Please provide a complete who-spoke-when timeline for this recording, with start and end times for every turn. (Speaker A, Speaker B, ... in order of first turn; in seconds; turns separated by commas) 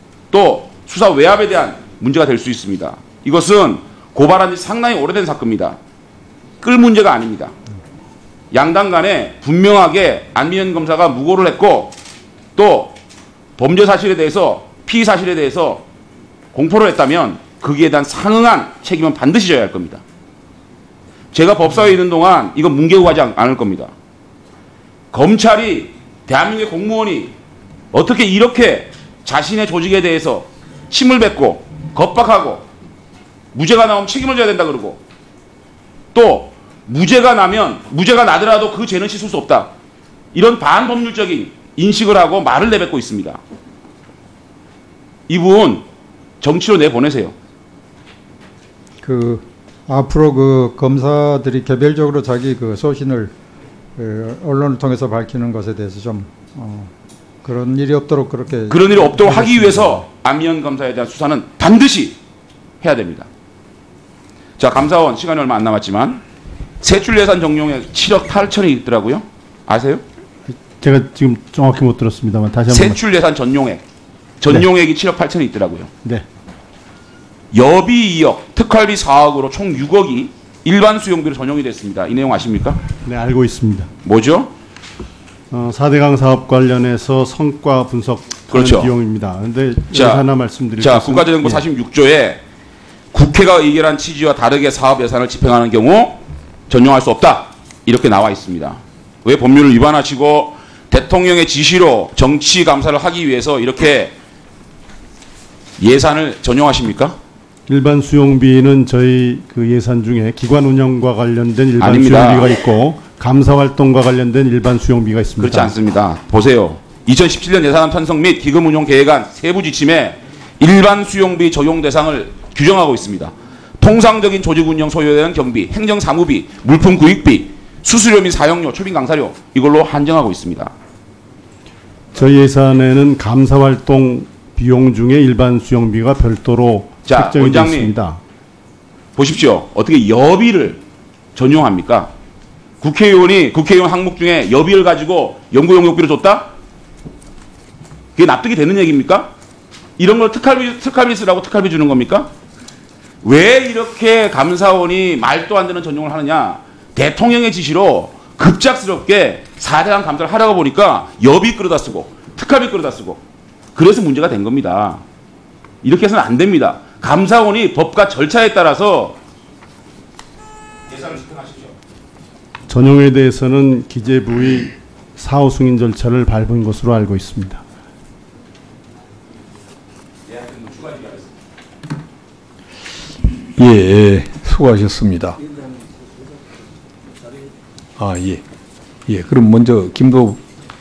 Speaker A: 0.3-5.8, Speaker A: 6.6-7.5, Speaker A: 8.5-11.9, Speaker A: 12.6-12.9, Speaker A: 13.6-15.8, Speaker A: 16.5-20.0, Speaker A: 21.3-23.9, Speaker A: 25.1-27.3, Speaker A: 27.9-32.6, Speaker A: 33.5-35.0, Speaker A: 36.1-39.7, Speaker A: 40.3-43.4, Speaker A: 45.3-45.8, Speaker A: 46.4-47.3, Speaker B: 49.0-53.3, Speaker B: 54.0-56.9, Speaker B: 57.4-60.0, Speaker A: 58.7-62.2, Speaker A: 62.8-63.3, Speaker A: 64.6-66.2, Speaker A: 66.8-70.0, Speaker C: 70.5-73.0, Speaker A: 72.7-73.8, Speaker A: 74.4-75.9, Speaker A: 77.5-82.8, Speaker C: 83.0-83.9, Speaker A: 84.0-84.5, Speaker C: 85.5-91.6, Speaker A: 88.5-88.9, Speaker A: 89.9-90.2, Speaker A: 90.8-92.4, Speaker A: 93.1-104.1, Speaker A: 105.8-107.2, Speaker C: 107.7-115.7, Speaker A: 111.8-112.5, Speaker A: 115.4-130.7, Speaker C: 132.1-138.2, Speaker A: 137.1-137.9, Speaker A: 139.2-140.8, Speaker A: 141.3-142.1, Speaker A: 142.8-146.5, Speaker A: 148.2-149.3, Speaker A: 150.0-152.3, Speaker A: 153.2-163.2, Speaker A: 163.8-165.0, Speaker A: 165.8-169.2, Speaker A: 170.9-171.7, Speaker C: 172.7-177.6, Speaker A: 180.3-181.2, Speaker D: 183.6-185.4, Speaker D: 188.0-188.4, Speaker D: 189.1-190.4